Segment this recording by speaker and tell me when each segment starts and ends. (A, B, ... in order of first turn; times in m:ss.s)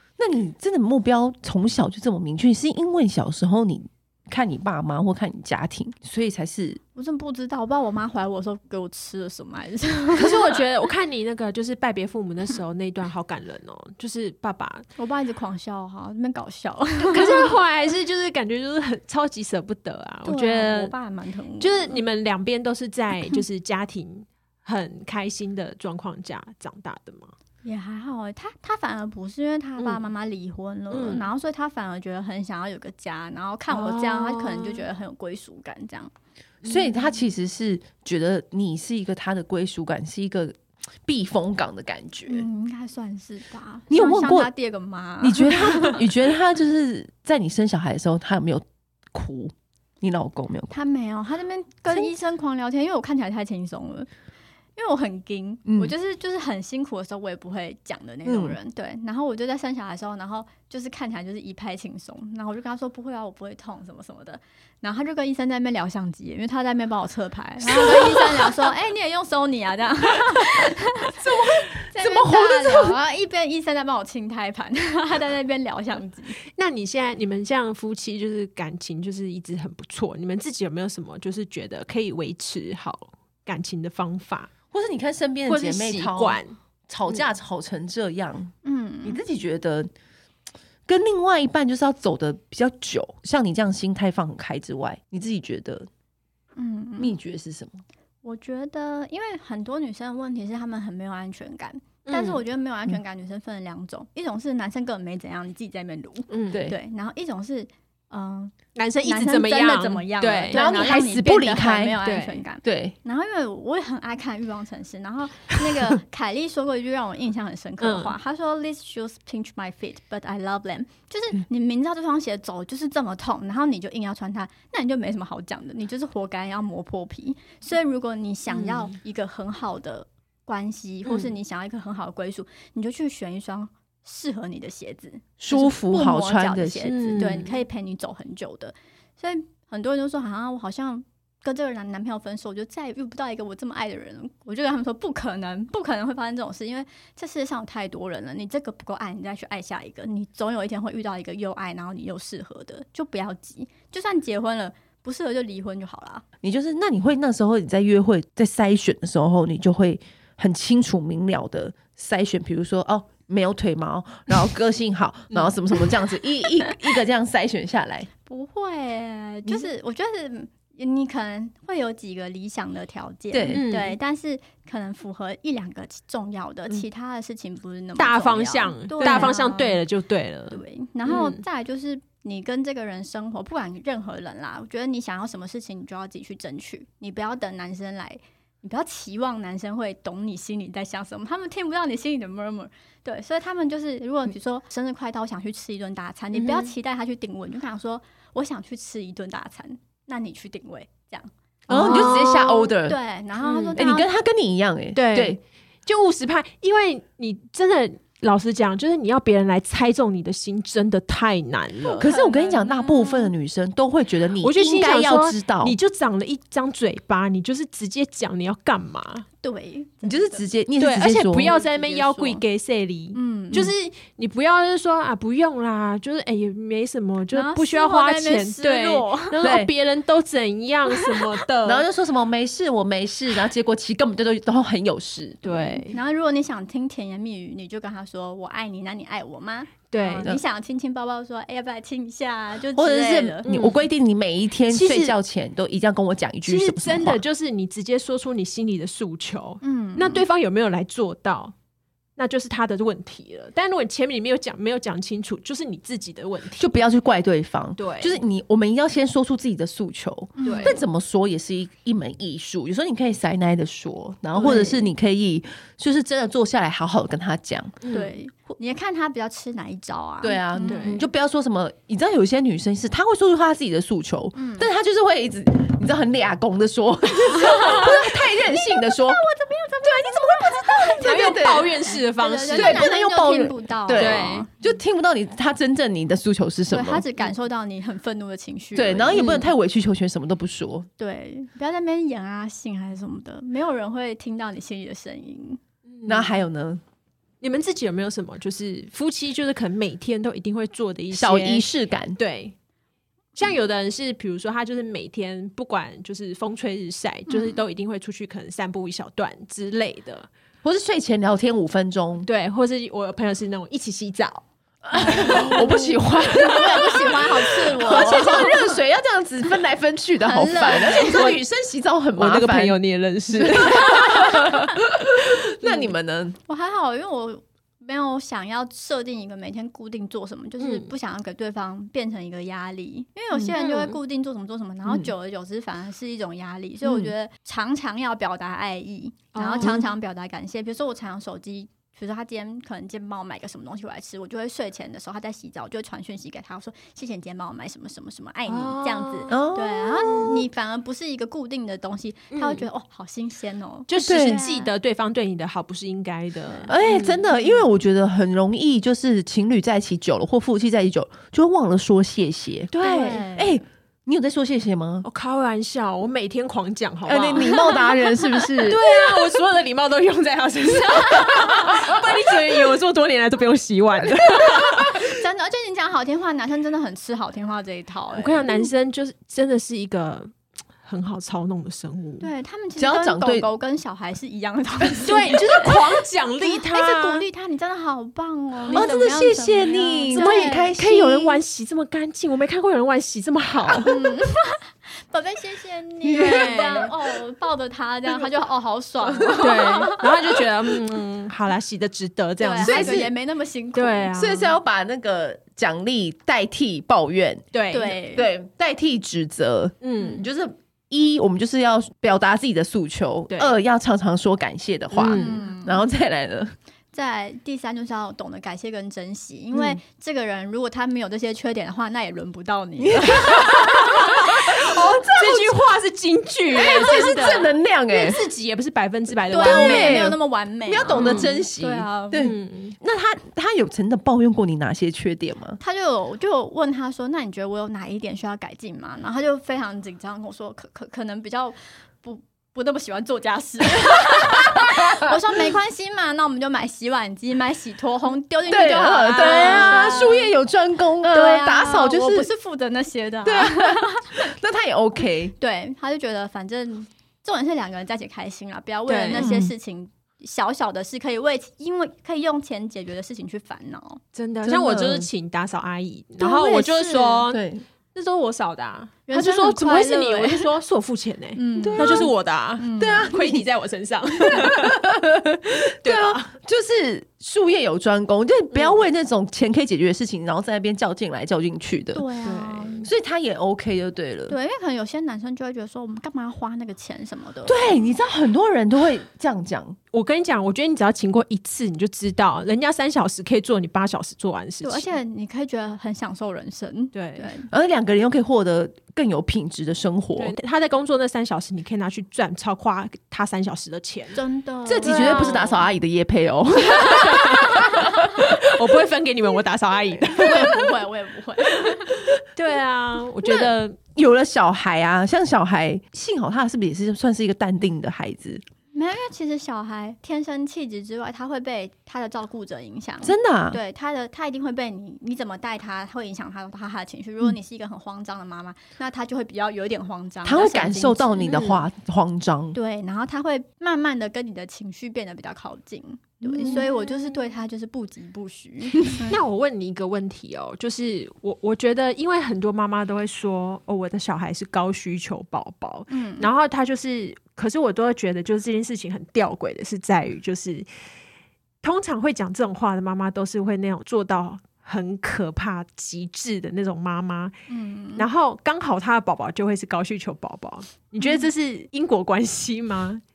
0:00.2-0:06.8 A
0:06.9-0:10.6 B
0:10.2-0:14.8 C
0:15.0-0:17.5 B
0:17.1-0:20.9 C
0:20.2-0:22.0 B
0:21.6-0:27.3 C
0:27.6-0:36.1 B
0:30.9-0:31.3 C
0:33.7-0:34.8 C
0:36.6-0:42.4 A
0:42.3-0:46.0 B
0:43.9-0:44.5 A
0:45.2-0:50.8 A
0:50.7-0:54.1 B
0:54.8-1:16.4 B
0:55.6-0:55.9 A
0:58.2-0:58.6 A
1:07.7-1:08.5 A
1:11.2-1:13.0 A
1:16.5-1:24.5 C
1:24.7-1:28.5 A
1:25.5-1:26.6 C
1:28.6-1:29.2 B
1:29.0-1:29.9 A
1:30.9-1:35.9 A
1:36.6-1:37.1 B
1:37.0-1:37.8 A
1:38.2-2:36.2 B
1:42.0-1:42.4 C
1:46.3-1:46.6 C
1:46.5-1:46.8 A
1:48.7-1:50.6 C
1:50.5-1:52.0 A
1:52.0-1:52.4 C
1:52.6-1:53.0 A
1:57.8-1:58.2 C
2:08.5-2:08.9 C
2:11.0-2:11.3 C
2:15.4-2:17.0 A
2:16.9-2:17.6 C
2:36.4-2:48.1 A
2:48.3-2:59.8 B
2:53.3-2:53.6 A
2:53.5-2:54.0 C
2:58.0-3:01.4 C
2:59.0-2:59.3 A
3:00.5-3:24.1 B
3:16.3-3:16.7 C
3:21.7-3:22.7 C
3:21.7-3:23.0 A
3:23.4-3:23.8 C
3:23.7-3:25.4 A
3:24.9-3:32.1 C
3:31.8-3:33.3 B
3:32.0-3:35.8 A
3:34.4-3:39.2 C
3:39.4-3:40.4 B
3:40.0-3:41.5 A
3:40.8-3:51.8 C
3:41.4-3:42.4 B
3:43.1-3:43.7 B
3:47.3-3:49.4 B
3:49.4-3:49.7 A
3:51.6-3:55.8 A
3:55.4-3:56.0 C
3:55.9-4:03.4 B
3:59.9-4:00.3 C
4:02.7-4:07.2 A
4:03.4-4:03.8 C
4:04.7-4:05.1 C
4:06.4-4:11.5 C
4:09.6-4:10.2 B
4:12.2-4:16.7 C
4:16.6-4:27.8 A
4:17.8-4:18.2 C
4:20.4-4:20.8 B
4:20.4-4:20.8 C
4:24.3-4:24.9 B
4:27.8-4:28.2 C
4:27.9-4:31.0 B
4:30.2-4:39.2 A
4:30.6-4:31.0 C
4:34.3-4:34.7 B
4:37.3-4:44.5 B
4:39.8-4:41.7 A
4:41.0-4:42.9 C
4:42.5-4:47.0 A
4:43.9-4:44.5 C
4:46.7-4:49.3 B
4:48.7-4:50.9 A
4:49.1-4:49.5 C
4:51.0-4:55.6 B
4:55.8-4:56.4 C
4:56.0-4:56.8 A
4:57.4-5:02.5 C
5:01.1-5:02.2 A
5:03.4-5:10.3 C
5:07.3-5:07.6 B
5:10.6-5:12.3 A
5:12.2-5:14.4 C
5:14.8-5:26.4 A
5:14.9-5:15.7 B
5:15.0-5:16.0 C
5:16.3-5:18.7 B
5:17.7-5:18.7 C
5:20.2-5:21.3 B
5:20.4-5:21.4 C
5:22.2-5:24.7 C
5:25.6-5:25.9 C
5:26.5-5:54.7 B
5:30.6-5:30.9 C
5:33.3-5:34.0 C
5:39.3-5:39.9 C
5:48.5-5:49.4 C
5:49.3-5:50.4 A
5:52.3-5:52.7 C
5:53.9-5:57.4 C
5:54.0-5:54.4 A
5:56.7-6:05.1 A
6:02.7-6:03.2 C
6:02.8-6:03.6 B
6:05.0-6:15.0 C
6:07.0-6:09.2 A
6:11.2-6:12.0 A
6:14.0-6:15.1 A
6:14.9-6:18.7 B
6:18.1-6:20.3 C
6:20.8-6:22.3 C
6:22.2-6:25.8 B
6:22.8-6:23.5 A
6:25.0-6:27.2 C
6:26.4-6:30.8 B
6:28.7-6:33.9 C
6:28.7-6:31.4 A
6:33.8-6:40.1 B
6:36.0-6:36.9 A
6:36.1-6:36.9 C
6:39.1-6:40.8 A
6:39.4-6:43.1 C
6:42.4-6:44.2 B
6:42.6-6:43.1 A
6:43.7-6:44.5 C
6:44.1-6:56.5 A
6:47.5-6:48.0 C
6:47.7-6:48.3 B
6:49.8-6:50.2 C
6:53.3-6:53.6 C
6:54.9-6:55.4 C
6:55.1-6:55.9 B
6:56.9-7:04.4 B
7:03.0-7:05.6 A
7:03.2-7:10.1 C
7:06.5-7:08.3 A
7:09.3-7:12.3 B
7:09.3-7:15.6 A
7:10.9-7:11.4 C
7:12.2-7:12.8 C
7:15.6-7:30.3 B
7:24.1-7:24.7 A
7:28.5-7:32.3 A
7:29.2-7:30.2 C
7:31.1-7:34.3 B
7:33.2-7:35.3 A
7:35.4-7:44.0 B
7:38.9-7:39.3 C
7:39.1-7:39.5 A
7:44.1-7:56.3 C
7:44.4-7:45.1 A
7:46.2-7:47.2 B
7:47.3-7:47.6 A
7:49.1-7:50.5 B
7:51.4-7:53.1 B
7:51.6-7:52.1 A
7:52.8-7:53.4 A
7:54.2-8:02.1 A
8:01.9-8:02.9 B
8:02.2-8:02.9 C
8:02.8-8:04.4 A
8:04.3-8:07.7 B
8:07.4-8:09.8 A
8:09.9-8:15.0 C
8:14.6-8:17.5 B
8:16.9-8:17.3 C
8:17.5-8:20.3 A
8:20.2-8:24.2 C
8:24.1-8:25.5 B
8:24.6-8:28.5 A
8:24.8-8:25.6 C
8:26.7-8:30.6 C
8:27.6-8:27.9 B
8:30.2-8:32.0 B
8:32.3-8:33.8 C
8:33.3-8:38.4 A
8:38.7-8:51.3 B
8:43.0-8:43.6 A
8:50.2-8:52.6 A
8:51.2-8:51.6 C
8:52.5-8:59.2 B
8:56.2-8:56.6 A
8:56.4-8:56.7 C
8:58.9-9:10.7 C
9:05.9-9:06.3 B
9:11.6-9:17.3 C
9:17.5-9:18.0 B
9:18.0-9:23.0 C
9:21.0-9:21.3 B